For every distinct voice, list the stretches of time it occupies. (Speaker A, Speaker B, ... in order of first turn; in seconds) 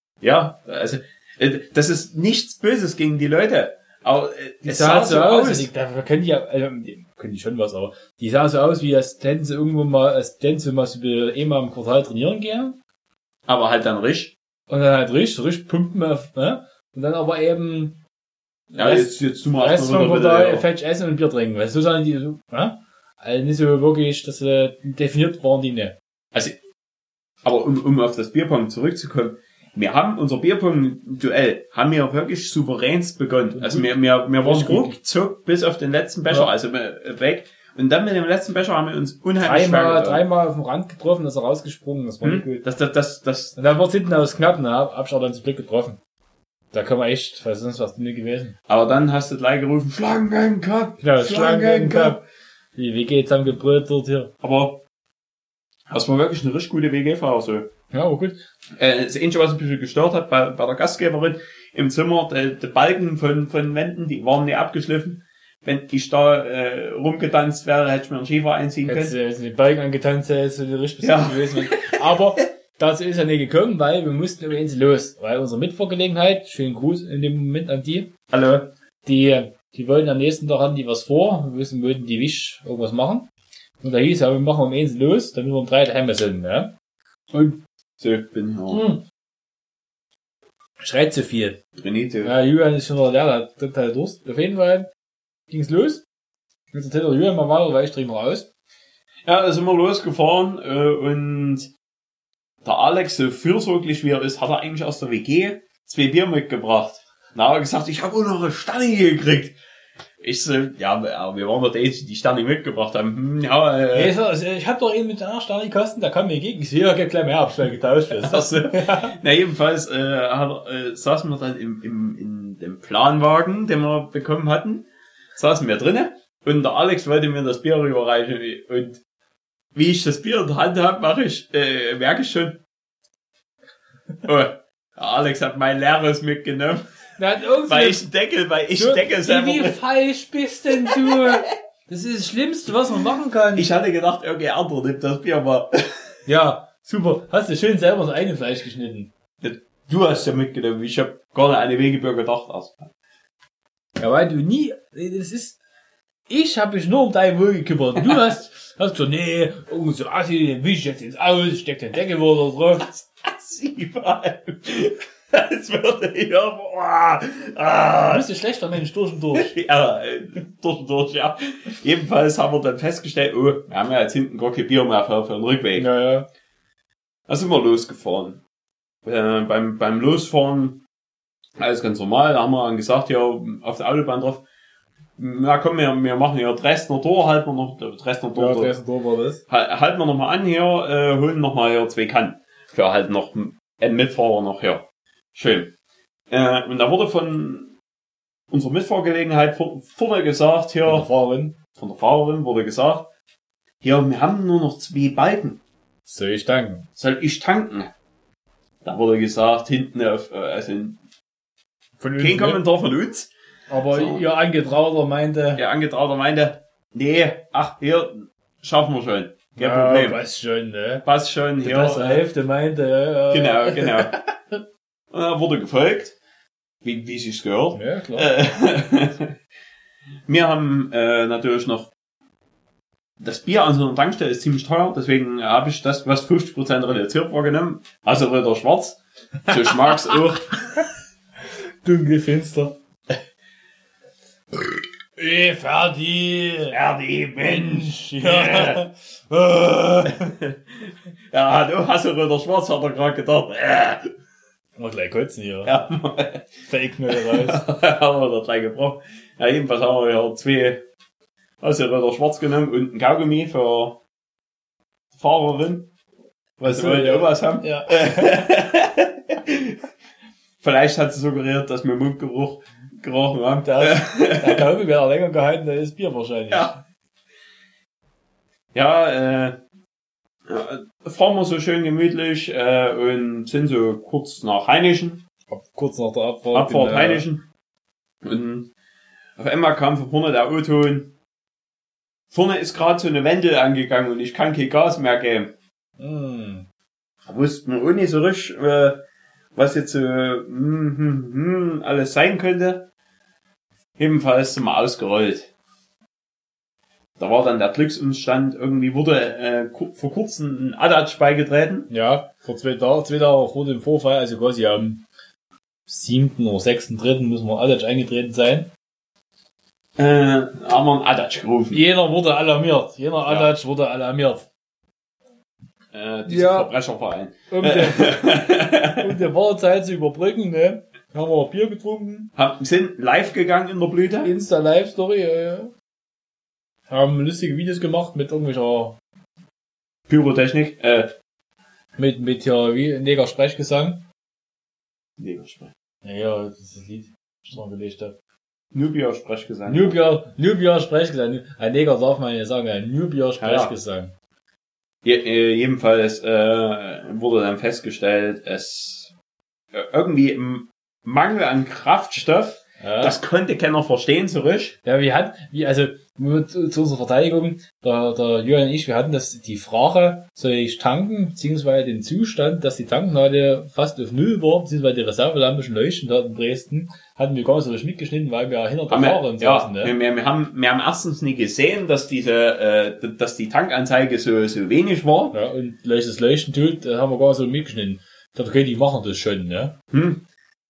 Speaker A: 0.2-5.7, 13.5-14.3, 18.8-20.7, 26.3-26.6, 27.4-40.2, 42.2-43.6, 48.7-52.2, 54.4-54.8, 55.9-57.7, 58.8-69.2, 71.0-72.2, 78.3-78.7, 88.0-88.8, 91.8-92.3, 99.2-101.7, 102.6-109.6, 110.2-114.2, 118.1-129.0, 129.8-132.6, 134.2-136.8, 137.7-139.8, 140.8-141.4, 143.6-146.1, 149.4-152.9, 163.2-168.2, 169.3-175.9, 177.3-178.4, 179.1-180.8, 181.6-184.4, 185.2-188.7, 189.5-195.7, 196.3-197.7, 198.5-201.1, 201.8-203.1, 203.8-205.6, 207.0-207.9, 208.8-211.0, 212.2-213.3, 213.9-214.3, 215.6-220.2, 221.1-222.3, 223.3-224.2, 225.1-226.2, 226.8-229.3, 230.3-231.9, 233.2-240.8, 246.7-248.8, 250.1-254.1, 255.7-260.8, 261.6-264.0, 265.1-265.9, 266.6-269.8, 270.6-274.6, 276.5-276.8, 278.7-279.6, 280.5-285.2, 286.5-287.5, 288.2-288.7, 289.4-291.1, 292.3-295.5, 297.3-299.0, 299.6-302.9, 304.0-305.5, 307.2-311.9, 320.0-321.8, 323.3-323.5, 325.9-329.2, 332.4-334.3, 340.1-341.1, 345.2-345.7, 348.7-350.0, 353.4-353.7, 355.0-359.1, 359.7-364.8, 378.9-385.4, 389.9-390.2
Speaker B: 4.7-12.8, 14.7-18.0, 18.7-26.0, 33.5-35.0, 39.4-42.7, 43.6-46.0, 46.7-48.5, 51.0-52.2, 52.8-54.3, 57.9-58.4, 68.8-78.1, 79.0-83.3, 83.8-86.7, 88.7-89.0, 90.8-91.6, 92.2-94.9, 95.5-96.0, 96.7-98.5, 113.9-119.2, 137.2-138.1, 138.8-143.7, 146.3-149.1, 154.0-155.6, 156.3-163.1, 168.1-169.5, 175.8-176.3, 188.3-189.4, 200.8-201.6, 206.1-206.9, 212.0-212.6, 213.7-215.6, 219.6-221.1, 221.6-224.1, 227.7-228.3, 239.5-240.1, 241.8-242.8, 245.2-246.8, 247.4-250.3, 254.8-255.7, 256.7-257.6, 266.6-268.3, 273.6-276.7, 285.5-287.3, 296.0-296.7, 311.9-315.1, 315.9-318.7, 321.7-324.5, 326.3-326.7, 327.5-328.4, 329.0-332.3, 334.2-335.7, 336.9-339.0, 342.0-344.1, 346.0-348.2, 349.7-354.1, 362.8-363.2, 364.8-379.9, 385.3-389.7